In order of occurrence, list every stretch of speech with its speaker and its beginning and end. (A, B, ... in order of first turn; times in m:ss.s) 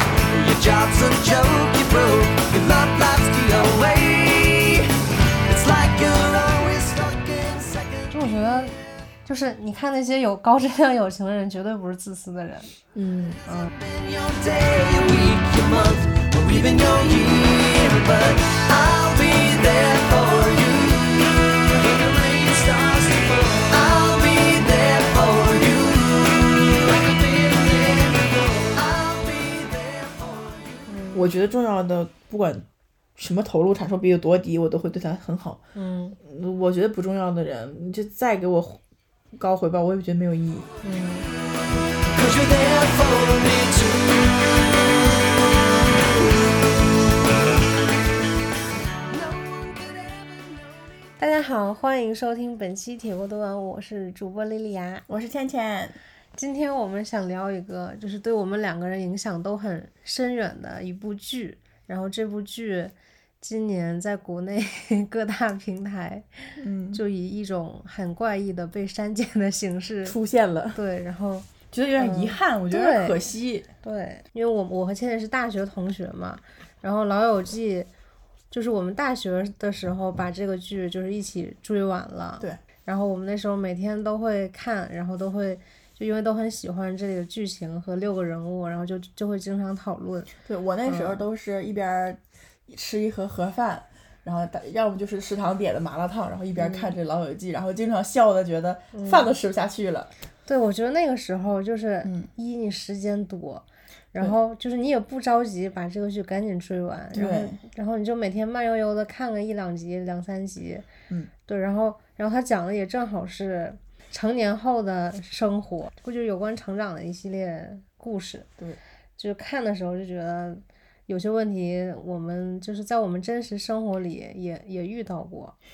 0:00.3-0:04.9 A
0:05.4-0:08.1 A
0:08.1-0:12.7 B
0:12.9-0:13.4 C
0:13.4-0:13.7 B
0:13.7-0:30.8 A
0:30.9-0:31.2 B
0:31.1-0:32.6 C
0:33.2-0:35.6 C
0:35.7-0:36.2 B
0:36.2-0:38.8 C
0:39.4-0:40.7 C
0:40.8-0:41.3 B
0:42.1-0:46.4 A
0:49.1-0:50.7 A
0:51.2-0:55.0 B
0:55.1-0:56.0 C
0:56.4-1:10.2 B
1:06.6-1:07.0 C
1:10.0-1:10.8 C
1:10.7-1:13.2 B
1:11.7-1:13.7 C
1:13.8-1:17.9 B
1:18.5-1:30.3 B
1:30.4-1:40.1 C
1:30.8-1:31.2 B
1:36.6-1:36.9 B
1:38.9-1:39.3 B
1:40.5-1:50.8 B
1:47.1-1:47.6 C
1:51.5-1:58.5 B
1:59.2-2:05.6 B